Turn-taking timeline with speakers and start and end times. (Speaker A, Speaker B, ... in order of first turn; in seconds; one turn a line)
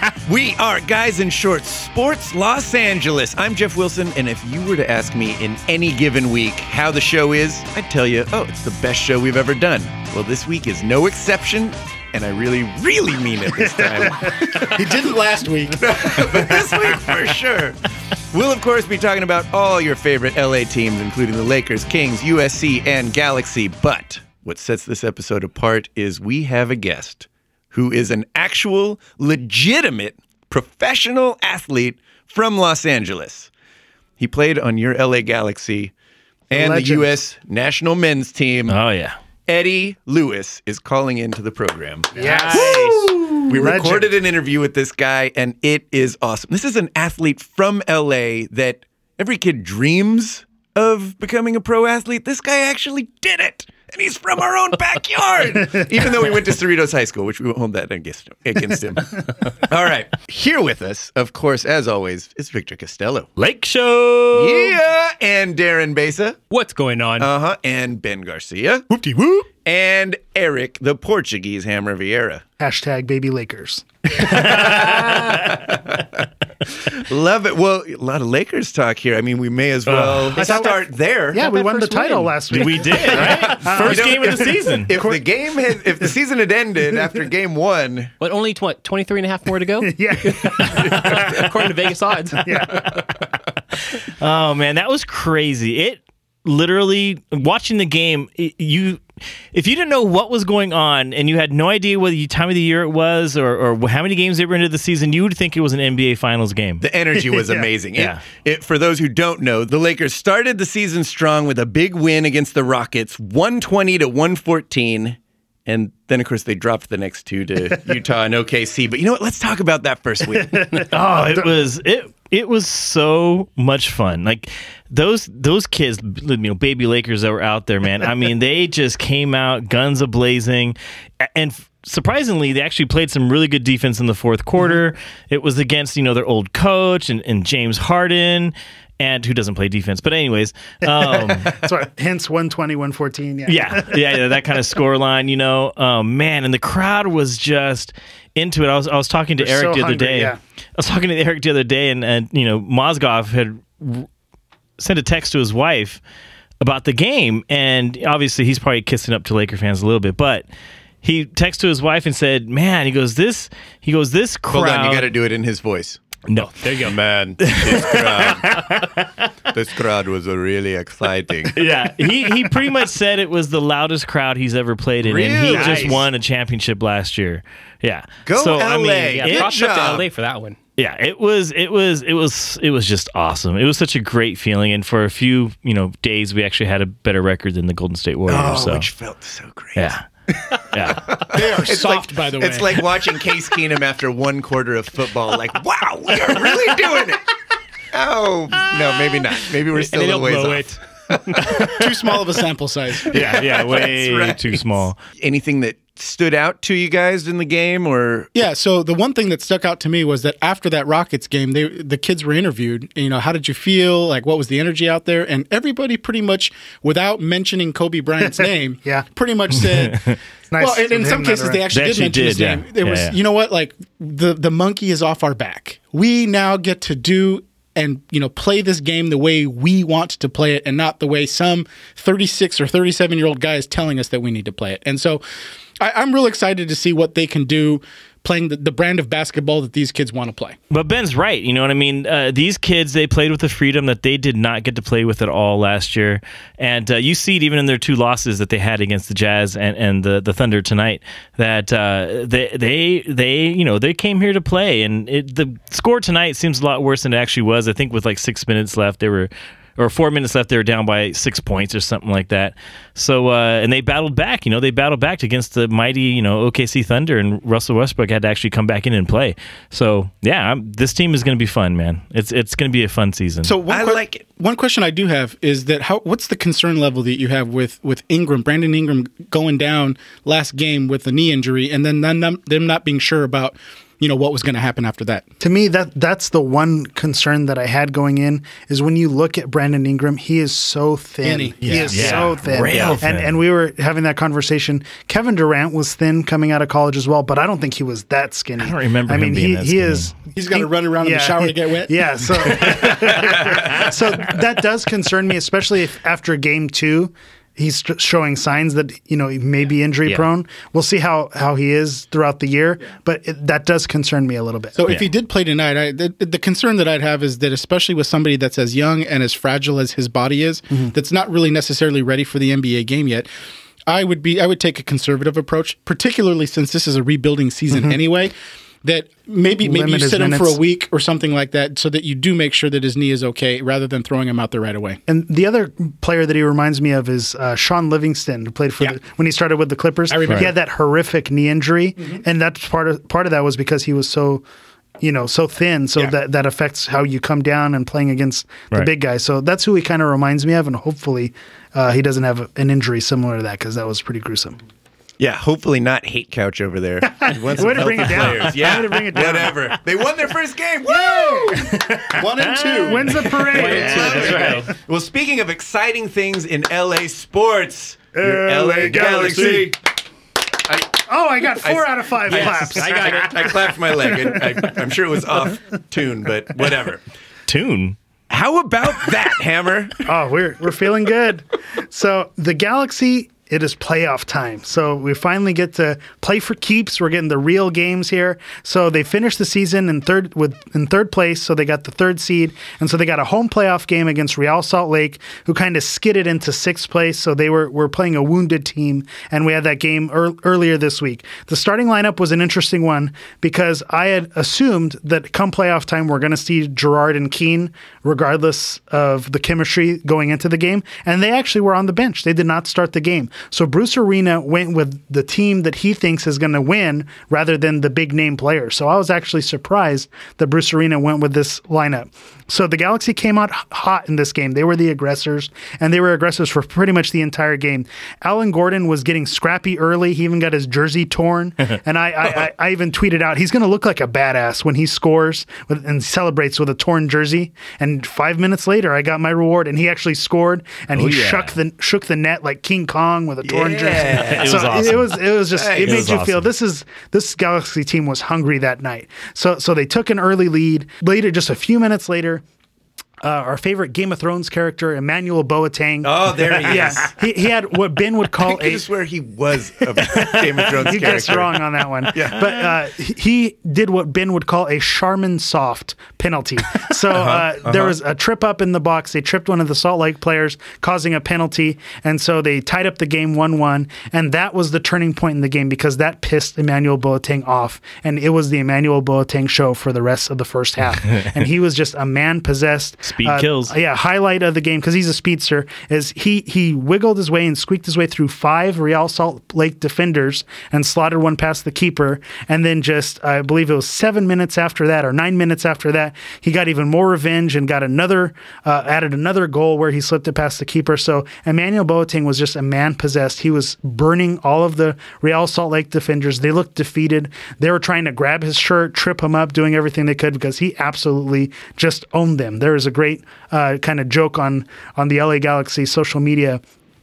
Speaker A: 0.2-14.3
Speaker B: 13.6-14.6
Speaker C: 14.6-16.5
Speaker A: 15.8-17.8
Speaker A: 18.3-33.5
Speaker A: 34.2-35.9
Speaker B: 36.5-37.1
Speaker A: 36.5-38.8
Speaker D: 38.7-39.1
Speaker A: 39.5-63.3
Speaker B: 42.1-44.1
Speaker E: 42.2-43.0
Speaker D: 63.4-64.8
Speaker A: 64.3-66.4
Speaker E: 66.5-67.3
Speaker A: 67.2-68.9
Speaker E: 69.0-69.4
Speaker A: 69.5-72.4
Speaker B: 72.6-74.6
Speaker D: 74.2-75.5
Speaker A: 74.3-81.5
Speaker D: 79.9-80.3
Speaker B: 80.3-86.1
Speaker E: 81.4-82.2
Speaker D: 82.5-84.9
Speaker A: 82.9-88.1
Speaker E: 88.2-92.9
Speaker B: 89.8-91.1
Speaker B: 92.4-93.0
Speaker D: 94.0-99.0
Speaker D: 99.5-106.8
Speaker A: 106.8-120.8
Speaker B: 107.1-107.7
Speaker D: 108.0-108.2
Speaker B: 120.3-121.5
Speaker D: 120.9-141.5
Speaker B: 140.8-144.2
Speaker D: 143.5-154.1
Speaker B: 149.4-150.4
Speaker D: 154.8-156.0
Speaker D: 156.6-160.5
Speaker D: 161.0-165.1
Speaker A: 164.5-166.2
Speaker D: 166.3-166.6
Speaker E: 166.4-167.0
Speaker A: 166.8-168.6
Speaker D: 167.4-169.2
Speaker A: 169.5-171.6
Speaker D: 171.5-179.5
Speaker A: 175.0-176.0
Speaker B: 175.5-175.9
Speaker A: 178.2-180.1
Speaker E: 179.1-180.6
Speaker D: 180.8-188.9
Speaker A: 188.3-189.9
Speaker D: 189.8-190.0
Speaker D: 190.7-191.1
Speaker A: 191.1-197.3
Speaker C: 191.3-192.8
Speaker A: 197.9-201.7
Speaker E: 199.7-201.5
Speaker C: 201.7-204.3
Speaker A: 203.1-204.3
Speaker D: 203.1-205.0
Speaker A: 205.1-208.3
Speaker C: 208.3-235.2
Speaker B: 218.3-219.1
Speaker B: 220.5-221.6
Speaker D: 221.7-223.2
Speaker C: 235.8-240.6
Speaker D: 240.7-273.5
Speaker C: 273.4-285.2
Speaker A: 273.7-274.2
Speaker B: 285.4-314.8
Speaker C: 291.2-292.3
Speaker D: 291.6-293.4
Speaker A: 292.7-293.0
Speaker D: 298.6-300.1
Speaker C: 300.3-302.0
Speaker D: 302.6-303.1
Speaker C: 314.7-323.3
Speaker C: 323.9-328.3
Speaker B: 327.7-328.0
Speaker C: 328.8-335.0
Speaker B: 329.6-330.6
Speaker B: 335.1-344.4
Speaker C: 340.1-340.5
Speaker B: 345.0-354.6
Speaker A: 355.2-361.6
Speaker B: 357.2-359.7
Speaker D: 358.1-358.6
Speaker B: 360.9-361.8
Speaker D: 361.6-364.6
Speaker C: 362.1-363.3
Speaker B: 362.8-364.4
Speaker E: 363.5-364.7
Speaker A: 363.5-369.8
Speaker B: 368.1-369.7
Speaker D: 369.0-369.6
Speaker A: 370.7-371.0
Speaker B: 371.1-374.8
Speaker A: 371.6-377.0
Speaker E: 372.3-373.7
Speaker D: 377.5-378.0
Speaker A: 378.3-380.0
Speaker B: 380.1-452.4
Speaker D: 440.9-441.5
Speaker A: 443.4-444.9
Speaker D: 444.3-446.5
Speaker A: 445.5-446.0
Speaker B: 453.2-458.8
Speaker A: 456.0-457.1
Speaker A: 458.4-461.6
Speaker B: 460.1-516.6
Speaker A: 462.1-462.5
Speaker A: 467.1-467.9
Speaker D: 483.0-483.7